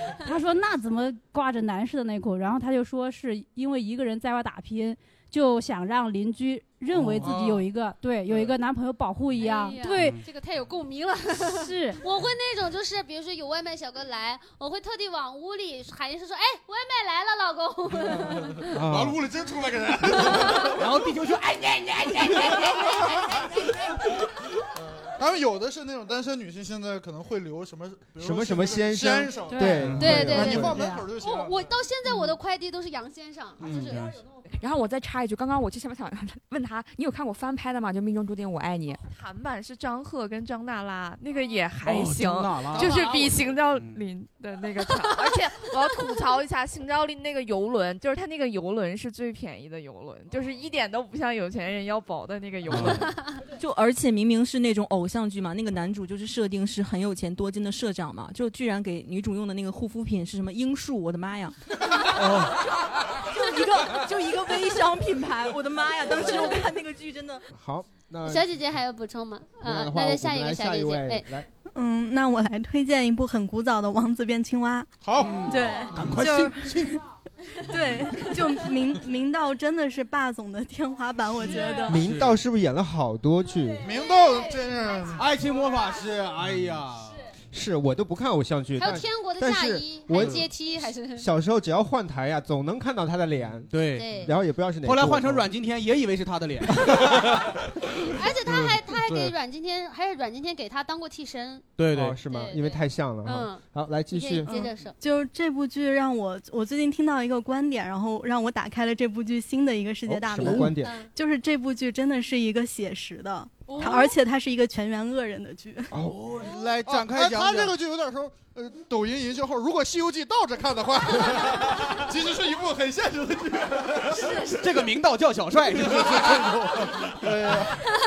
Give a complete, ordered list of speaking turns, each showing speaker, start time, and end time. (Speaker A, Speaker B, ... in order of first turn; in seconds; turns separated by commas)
Speaker A: 0.2-10.2, Speaker B: 7.0-7.7, Speaker C: 9.4-18.8, Speaker A: 11.4-12.0, Speaker B: 18.1-20.8, Speaker D: 18.7-19.2, Speaker C: 20.3-20.7, Speaker E: 20.8-22.9, Speaker C: 23.1-23.4, Speaker B: 24.9-31.7, Speaker D: 28.2-30.8, Speaker E: 29.7-30.3, Speaker C: 30.0-34.1, Speaker E: 33.6-34.2, Speaker F: 34.5-39.0, Speaker G: 39.2-53.2, Speaker E: 41.8-44.0, Speaker E: 52.7-53.2, Speaker H: 53.4-67.5, Speaker D: 67.5-68.5, Speaker C: 68.2-71.3, Speaker D: 69.6-71.5, Speaker I: 71.7-77.0, Speaker B: 75.0-75.4, Speaker E: 75.2-77.0, Speaker I: 77.6-82.0, Speaker E: 77.8-78.0, Speaker E: 81.9-82.4, Speaker D: 81.9-83.9, Speaker B: 83.8-85.3, Speaker C: 84.0-85.2, Speaker E: 85.2-87.3, Speaker D: 87.5-90.5, Speaker C: 88.8-91.3, Speaker E: 90.1-90.4, Speaker D: 91.1-95.5, Speaker E: 93.7-94.3, Speaker C: 93.9-94.3, Speaker E: 94.8-97.5, Speaker C: 98.0-101.7, Speaker E: 101.8-102.2, Speaker D: 101.9-104.5, Speaker C: 102.3-105.0, Speaker I: 104.5-115.9, Speaker D: 110.1-111.0, Speaker C: 110.8-111.1, Speaker C: 113.8-114.1, Speaker D: 115.9-116.2, Speaker E: 116.0-117.8, Speaker B: 116.8-124.5, Speaker E: 124.0-127.3, Speaker B: 125.8-127.9